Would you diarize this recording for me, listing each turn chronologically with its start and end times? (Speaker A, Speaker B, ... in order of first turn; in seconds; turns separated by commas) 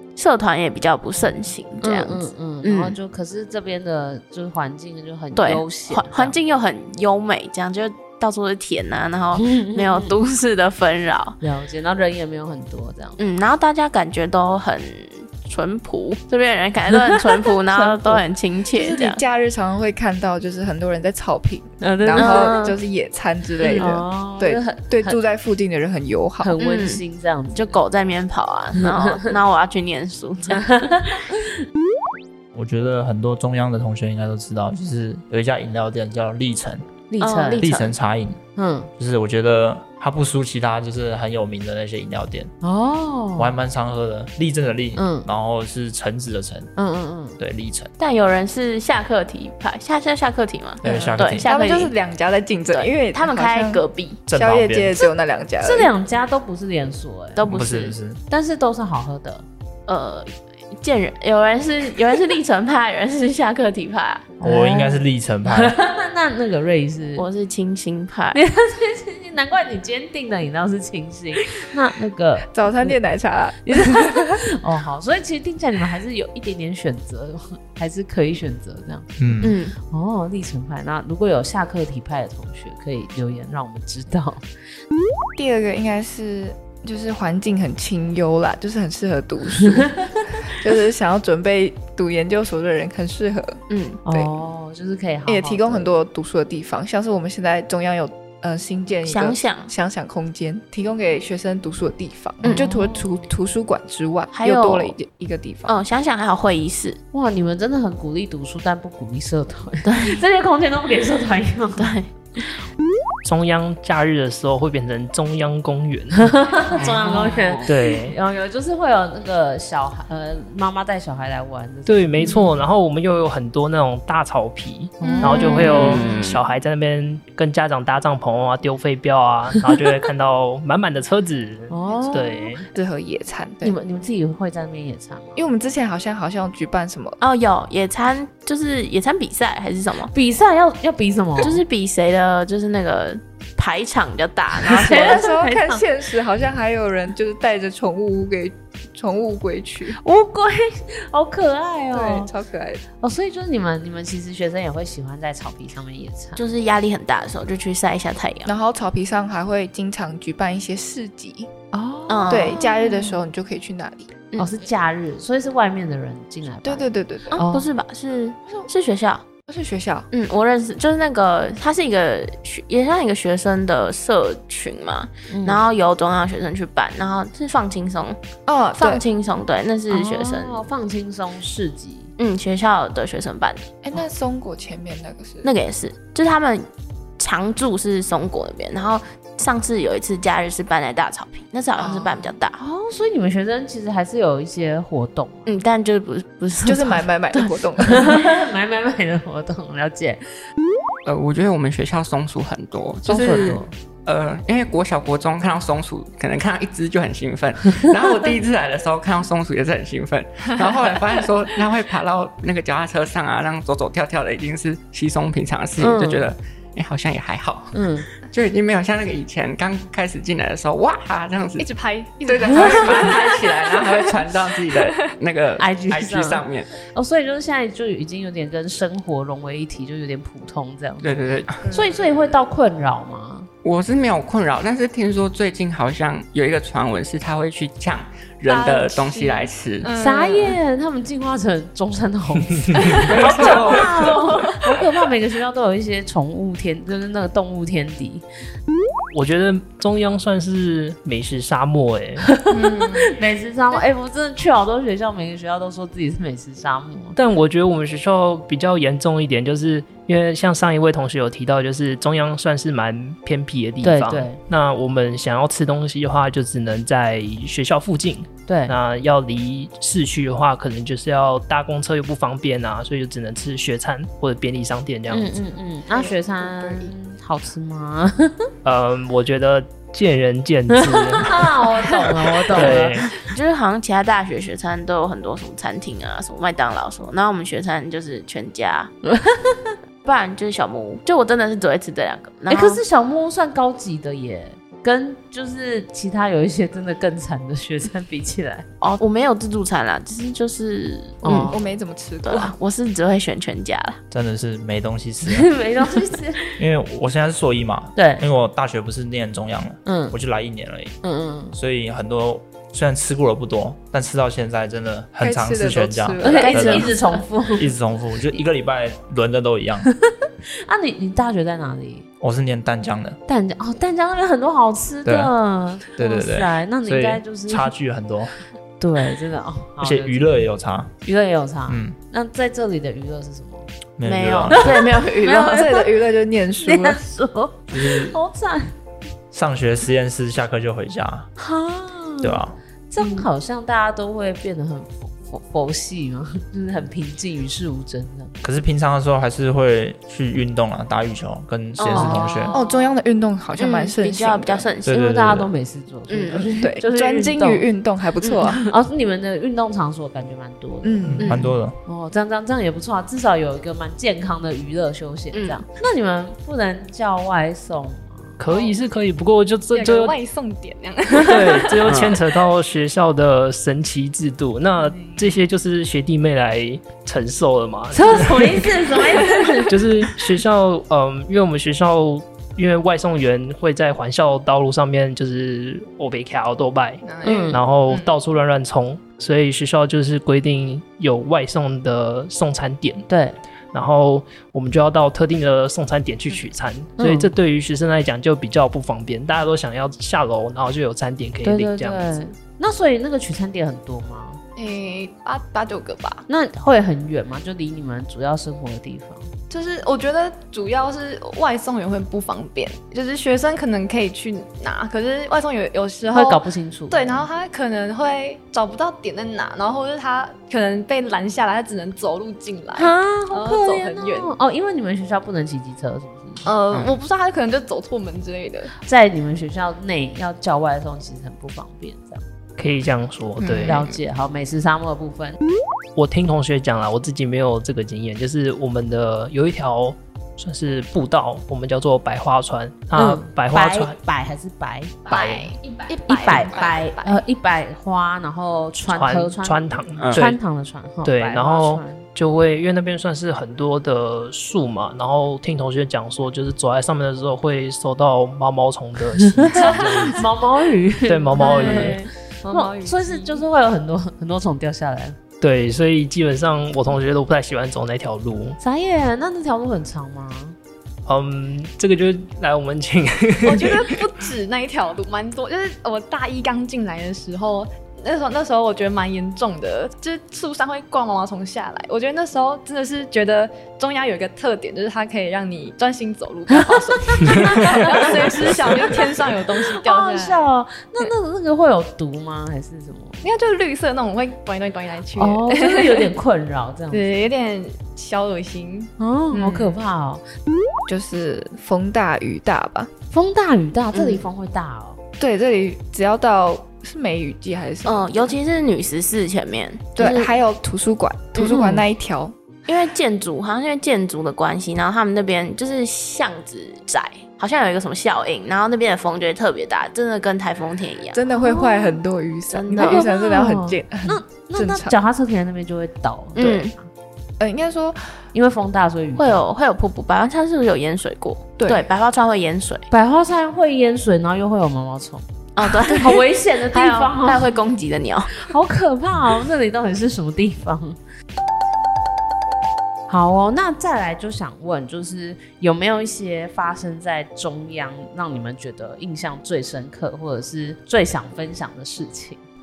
Speaker A: 0.2-3.0, Speaker B: 1.8-6.4, Speaker A: 5.3-11.4, Speaker B: 9.4-10.1, Speaker B: 11.4-13.2, Speaker A: 13.2-19.2, Speaker B: 17.1-18.2, Speaker C: 18.7-26.5, Speaker B: 21.8-22.8, Speaker A: 22.2-22.8, Speaker A: 23.6-23.9, Speaker B: 23.8-25.2, Speaker B: 26.4-27.8, Speaker A: 26.6-27.0, Speaker A: 27.6-30.8, Speaker B: 28.8-29.3, Speaker B: 30.5-31.5, Speaker D: 32.5-36.9, Speaker B: 37.1-37.7, Speaker A: 37.2-38.0, Speaker D: 37.6-38.4, Speaker B: 38.6-38.9, Speaker D: 39.0-42.5, Speaker B: 42.6-43.5, Speaker D: 43.4-46.7, Speaker B: 45.0-45.3, Speaker B: 46.8-47.4, Speaker D: 47.4-47.9, Speaker A: 48.0-51.9, Speaker D: 50.8-51.5, Speaker C: 50.9-55.9, Speaker A: 52.7-54.2, Speaker D: 54.3-55.0, Speaker B: 55.6-57.5, Speaker A: 57.4-58.0, Speaker D: 57.4-58.2, Speaker B: 58.3-59.5, Speaker A: 59.9-64.3, Speaker B: 64.4-67.3, Speaker D: 64.4-65.8, Speaker A: 67.2-68.4, Speaker B: 68.3-73.0, Speaker C: 72.5-74.4, Speaker B: 73.6-84.4, Speaker D: 79.2-79.6, Speaker A: 79.4-79.8, Speaker C: 85.4-93.6, Speaker A: 93.7-94.0, Speaker B: 94.0-95.9, Speaker C: 95.3-105.7, Speaker A: 99.1-99.7, Speaker B: 102.5-103.2, Speaker A: 104.3-105.0, Speaker A: 105.7-107.0, Speaker B: 107.1-111.9, Speaker A: 109.8-110.2, Speaker A: 111.8-112.5, Speaker E: 113.2-116.5, Speaker B: 116.2-122.6, Speaker F: 116.7-117.8, Speaker E: 117.7-118.2, Speaker E: 121.9-132.7, Speaker B: 125.0-126.1, Speaker F: 125.5-126.4, Speaker A: 125.8-126.0, Speaker B: 131.7-132.5, Speaker C: 131.9-133.8, Speaker B: 133.6-135.4, Speaker C: 135.4-137.2, Speaker A: 137.2-140.1, Speaker B: 140.1-141.6, Speaker A: 141.4-145.2, Speaker B: 144.6-145.9, Speaker C: 144.9-150.0, Speaker B: 149.9-152.3, Speaker C: 151.9-152.8, Speaker B: 153.0-156.4, Speaker A: 156.4-158.5, Speaker C: 158.5-161.8, Speaker B: 161.7-163.2, Speaker A: 162.1-162.9, Speaker C: 162.3-164.2, Speaker B: 164.4-167.7, Speaker C: 166.6-167.4, Speaker A: 167.3-169.2, Speaker C: 169.5-170.1, Speaker A: 170.1-178.2, Speaker B: 175.3-175.6, Speaker C: 178.5-179.0, Speaker A: 178.8-180.6, Speaker B: 179.9-182.1, Speaker A: 182.2-183.7, Speaker C: 183.8-185.5, Speaker A: 185.4-186.7, Speaker A: 187.2-192.6, Speaker C: 191.8-192.3, Speaker B: 192.6-195.5, Speaker A: 195.5-197.6, Speaker C: 196.6-198.2, Speaker B: 197.9-200.2, Speaker F: 201.1-221.7, Speaker B: 203.1-203.7, Speaker B: 215.8-216.3, Speaker B: 217.7-218.1, Speaker G: 221.6-225.2, Speaker F: 222.2-226.7, Speaker B: 225.6-233.5, Speaker F: 231.0-231.6, Speaker G: 231.6-232.1, Speaker F: 233.6-239.9, Speaker G: 238.5-240.6, Speaker B: 239.9-248.2, Speaker G: 242.7-244.5, Speaker F: 243.0-244.1, Speaker E: 249.1-252.4, Speaker B: 252.2-257.2, Speaker G: 252.5-253.1, Speaker E: 257.2-275.4, Speaker B: 263.8-264.4, Speaker B: 268.5-268.8, Speaker B: 275.1-278.5, Speaker C: 275.9-276.9, Speaker E: 278.6-283.2, Speaker B: 280.7-283.0, Speaker A: 283.2-288.9, Speaker B: 289.1-289.7, Speaker A: 290.1-292.8, Speaker B: 292.5-298.7, Speaker A: 298.8-301.6, Speaker B: 301.2-301.6, Speaker C: 301.5-302.5, Speaker A: 302.2-304.0, Speaker D: 304.1-305.5, Speaker B: 305.3-306.4, Speaker D: 306.6-311.0, Speaker B: 308.0-308.2, Speaker B: 309.9-310.2, Speaker B: 311.0-311.6, Speaker D: 311.5-316.9, Speaker C: 315.2-316.9, Speaker B: 316.2-317.7, Speaker A: 316.4-316.9, Speaker D: 317.6-319.9, Speaker B: 320.6-322.1, Speaker D: 322.2-323.2, Speaker B: 323.3-327.7, Speaker D: 325.1-325.3, Speaker D: 325.9-328.3, Speaker B: 328.8-330.5, Speaker D: 329.8-330.9, Speaker B: 331.0-333.7, Speaker D: 331.7-332.0, Speaker D: 334.0-334.9, Speaker A: 334.1-335.7, Speaker B: 334.5-335.9, Speaker C: 335.3-337.0, Speaker B: 336.6-338.8, Speaker D: 337.7-338.2, Speaker D: 339.3-341.3, Speaker B: 341.4-348.4, Speaker D: 342.2-342.6, Speaker A: 343.0-343.3, Speaker D: 348.4-352.6, Speaker A: 351.8-352.8, Speaker B: 351.9-352.6, Speaker C: 352.5-354.7, Speaker A: 353.6-354.9, Speaker D: 354.9-355.5, Speaker B: 354.9-357.7, Speaker A: 356.1-356.7, Speaker C: 356.6-358.7, Speaker A: 358.2-358.6, Speaker B: 358.7-361.2, Speaker C: 360.8-361.5, Speaker D: 361.1-361.8, Speaker B: 361.9-368.4, Speaker A: 365.3-365.6, Speaker E: 368.4-370.2, Speaker G: 368.5-368.8, Speaker G: 369.7-372.0, Speaker E: 371.2-378.7, Speaker F: 371.9-372.2, Speaker G: 374.8-375.4, Speaker B: 377.9-379.7, Speaker G: 379.0-379.7, Speaker E: 379.7-393.1, Speaker G: 387.0-388.1, Speaker B: 387.2-387.6, Speaker B: 393.1-393.4, Speaker E: 393.7-402.2, Speaker B: 397.0-397.3, Speaker B: 401.4-404.4, Speaker G: 404.6-406.2, Speaker B: 406.3-409.3, Speaker G: 409.5-424.3, Speaker B: 416.1-417.3, Speaker B: 422.8-426.5, Speaker G: 426.4-428.7, Speaker F: 426.7-427.0, Speaker B: 428.9-432.2, Speaker E: 432.6-433.8, Speaker B: 433.7-435.4, Speaker E: 436.0-444.0, Speaker B: 442.9-452.0, Speaker G: 445.1-447.2, Speaker E: 448.9-450.4, Speaker F: 450.0-450.2, Speaker E: 451.0-460.2, Speaker B: 459.2-465.2, Speaker G: 459.5-460.1, Speaker E: 461.1-462.0, Speaker G: 461.4-463.4, Speaker E: 465.4-468.6, Speaker B: 468.6-470.6, Speaker E: 471.1-474.1, Speaker G: 473.4-490.4, Speaker B: 486.6-489.2, Speaker B: 489.7-493.2, Speaker G: 493.2-496.1, Speaker B: 495.2-497.0, Speaker G: 496.9-499.8, Speaker B: 499.0-500.2, Speaker C: 500.9-502.9, Speaker B: 503.1-505.0, Speaker A: 503.9-504.2, Speaker C: 505.2-508.4, Speaker A: 507.9-510.3, Speaker C: 510.0-512.3, Speaker A: 511.4-511.7, Speaker B: 511.4-511.8, Speaker A: 512.7-521.2, Speaker C: 521.1-525.0, Speaker B: 521.3-522.0, Speaker A: 522.5-523.1, Speaker B: 522.8-526.9, Speaker A: 526.4-526.7, Speaker C: 527.4-528.0, Speaker B: 528.3-529.4, Speaker A: 529.2-532.9, Speaker C: 531.6-531.9, Speaker B: 532.9-535.3, Speaker A: 535.6-538.5, Speaker B: 535.9-537.5, Speaker B: 538.4-541.0, Speaker B: 543.1-552.4